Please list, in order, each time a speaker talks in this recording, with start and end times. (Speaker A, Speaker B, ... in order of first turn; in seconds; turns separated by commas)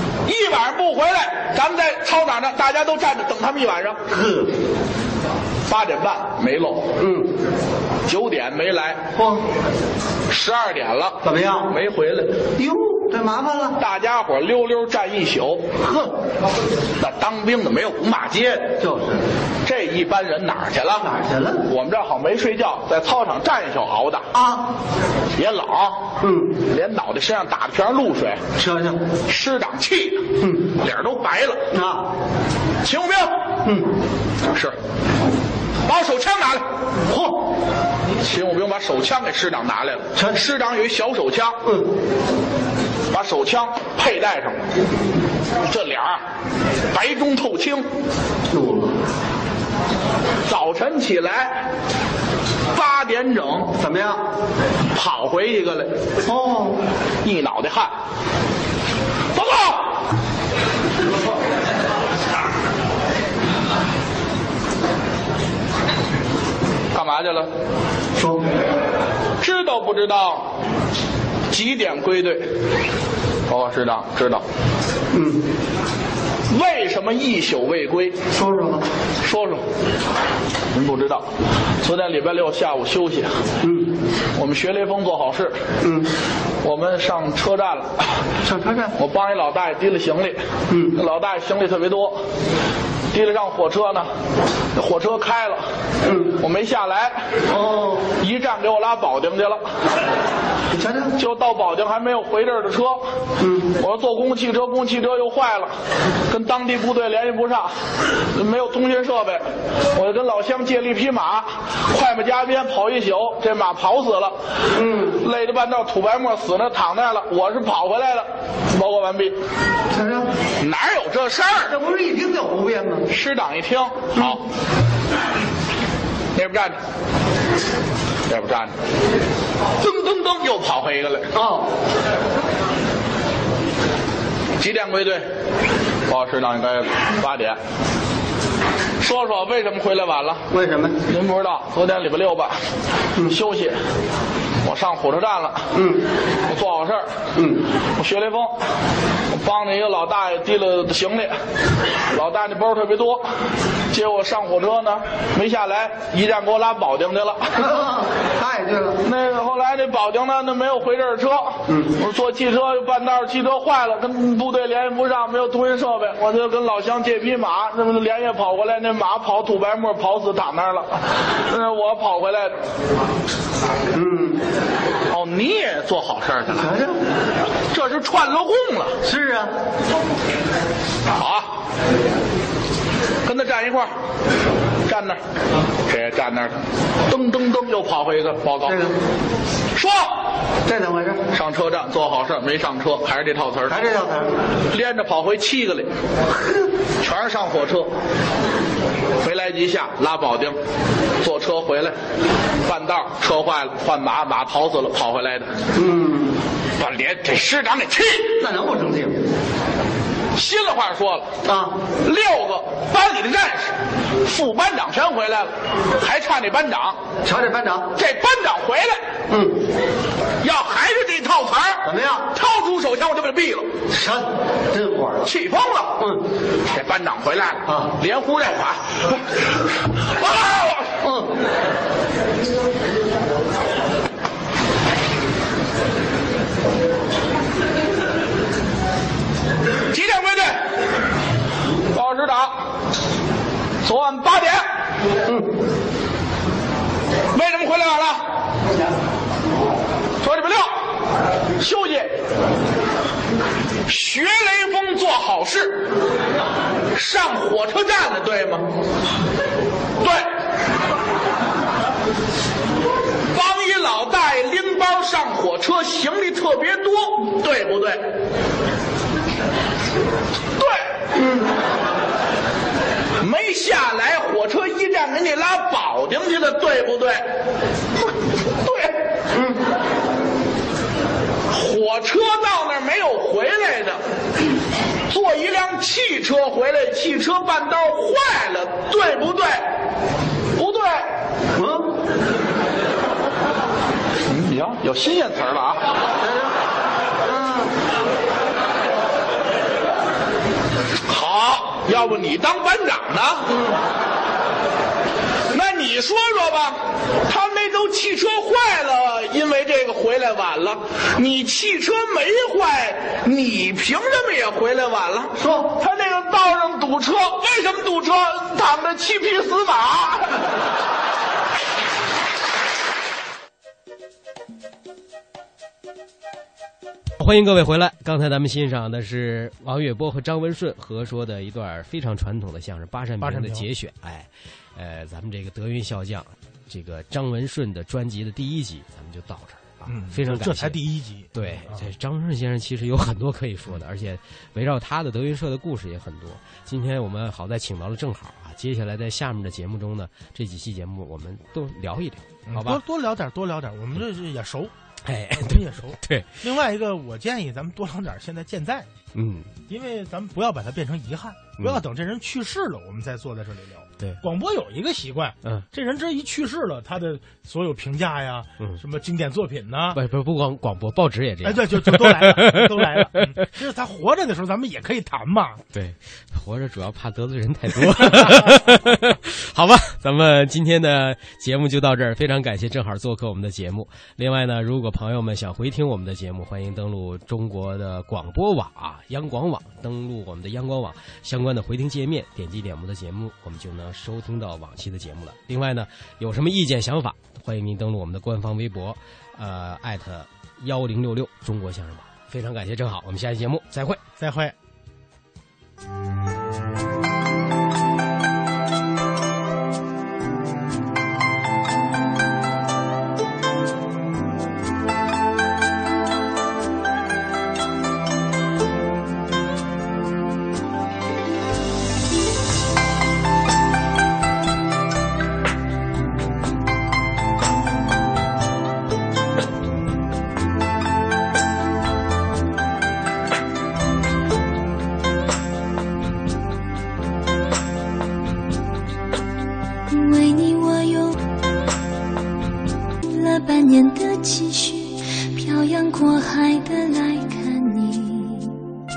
Speaker A: 0.2-4.0, Speaker B: 4.1-4.5, Speaker A: 5.7-6.8, Speaker B: 7.0-7.3, Speaker A: 8.1-9.0, Speaker B: 9.2-9.4, Speaker A: 10.3-12.4, Speaker B: 11.2-11.7, Speaker B: 12.6-13.8, Speaker A: 13.8-15.7, Speaker B: 15.8-16.1, Speaker A: 17.0-18.8, Speaker B: 18.8-19.2, Speaker A: 19.6-21.1, Speaker B: 21.0-21.6, Speaker A: 21.6-24.3, Speaker B: 24.3-24.6, Speaker A: 25.4-26.0, Speaker B: 26.2-26.6, Speaker A: 26.6-28.4, Speaker B: 28.6-29.0, Speaker A: 29.3-31.6, Speaker B: 30.4-30.7, Speaker B: 31.7-32.0, Speaker A: 32.8-33.3, Speaker A: 35.9-36.6, Speaker B: 37.1-37.4, Speaker A: 38.2-41.6, Speaker A: 43.1-44.6, Speaker A: 45.6-46.2, Speaker A: 46.9-47.9, Speaker B: 48.5-48.9, Speaker A: 50.5-51.6, Speaker A: 52.7-53.7, Speaker B: 53.8-54.2, Speaker A: 54.9-55.9, Speaker B: 56.2-56.8, Speaker A: 57.2-57.9, Speaker A: 59.3-60.0, Speaker A: 66.9-67.5, Speaker B: 68.2-68.4, Speaker A: 69.4-70.5, Speaker A: 71.5-72.4, Speaker A: 73.5-74.4, Speaker B: 75.1-75.4, Speaker A: 76.5-78.2, Speaker B: 78.3-78.8, Speaker A: 79.2-79.6, Speaker A: 80.7-81.3, Speaker A: 81.8-83.3, Speaker A: 84.3-85.6, Speaker A: 86.6-88.0, Speaker B: 88.4-88.9, Speaker A: 89.0-90.4, Speaker B: 90.7-91.0, Speaker A: 90.9-92.2, Speaker A: 93.1-94.1, Speaker A: 94.7-95.6, Speaker B: 96.0-96.3, Speaker A: 96.4-97.2, Speaker B: 97.5-98.1, Speaker A: 98.2-99.6, Speaker B: 100.7-101.1, Speaker A: 101.2-103.0, Speaker B: 103.4-103.7, Speaker A: 103.8-105.7, Speaker A: 106.3-107.7, Speaker A: 108.3-109.4, Speaker A: 109.9-114.3, Speaker B: 114.8-115.2, Speaker A: 115.2-119.3, Speaker B: 119.9-120.3, Speaker A: 120.6-121.7, Speaker B: 121.7-123.0, Speaker A: 123.1-124.4, Speaker A: 126.3-126.8, Speaker A: 128.3-128.7, Speaker A: 129.8-131.3, Speaker B: 131.3-131.7, Speaker A: 134.6-135.2, Speaker A: 136.1-137.6, Speaker A: 139.0-140.4, Speaker B: 140.5-141.0, Speaker A: 141.1-142.5, Speaker A: 143.2-143.8, Speaker A: 144.6-145.7, Speaker B: 145.7-146.0, Speaker A: 146.5-147.1, Speaker B: 147.4-147.6, Speaker A: 148.0-148.5, Speaker A: 149.3-151.3, Speaker A: 152.1-153.2, Speaker A: 153.9-157.5, Speaker B: 157.6-159.0, Speaker A: 159.0-172.5, Speaker B: 173.9-174.4, Speaker A: 175.1-176.7, Speaker B: 176.4-177.0, Speaker A: 177.7-179.0, Speaker B: 179.0-179.5, Speaker A: 181.1-181.5, Speaker A: 183.2-183.9, Speaker A: 184.9-185.2, Speaker A: 185.9-188.8, Speaker B: 188.6-188.9, Speaker A: 189.7-190.1, Speaker B: 190.7-191.2, Speaker A: 191.3-193.7, Speaker B: 193.7-194.3, Speaker A: 194.7-195.9, Speaker A: 197.0-197.9, Speaker A: 199.2-200.6, Speaker A: 201.2-201.9, Speaker A: 202.6-205.5, Speaker B: 205.8-206.3, Speaker A: 206.8-208.4, Speaker B: 208.4-209.2, Speaker A: 210.3-211.3, Speaker B: 211.4-211.7, Speaker A: 212.0-217.0, Speaker B: 217.2-217.9, Speaker A: 217.9-219.0, Speaker B: 219.3-219.6, Speaker A: 220.4-223.7, Speaker B: 221.8-222.3, Speaker B: 223.9-225.2, Speaker A: 225.2-226.1, Speaker A: 226.7-229.2, Speaker B: 227.7-227.9, Speaker A: 230.1-230.9, Speaker B: 231.0-231.3, Speaker A: 239.9-240.6, Speaker A: 241.9-242.6, Speaker A: 243.8-244.6, Speaker A: 247.3-248.2, Speaker A: 250.2-250.7, Speaker A: 251.6-252.1, Speaker A: 253.8-255.9, Speaker A: 256.9-258.6, Speaker A: 260.0-260.3, Speaker A: 263.3-268.0, Speaker A: 270.6-270.8, Speaker B: 271.1-271.5, Speaker A: 273.2-277.2, Speaker A: 278.6-278.9, Speaker B: 279.3-279.6, Speaker A: 281.5-284.0, Speaker A: 285.1-289.6, Speaker A: 290.6-291.1, Speaker B: 291.6-291.9, Speaker A: 294.3-295.8, Speaker B: 296.2-296.5, Speaker B: 297.2-297.7, Speaker A: 301.1-303.5, Speaker A: 305.5-320.4, Speaker B: 315.4-315.7, Speaker C: 327.2-352.8, Speaker D: 333.2-333.7, Speaker D: 339.9-341.9, Speaker D: 352.5-354.7, Speaker C: 355.0-356.4, Speaker D: 355.4-358.9, Speaker C: 359.1-359.6, Speaker D: 359.7-370.0, Speaker C: 369.9-373.4, Speaker D: 371.4-375.6, Speaker C: 375.7-404.0, Speaker D: 404.2-404.5, Speaker E: 439.9-441.2, Speaker E: 443.0-448.6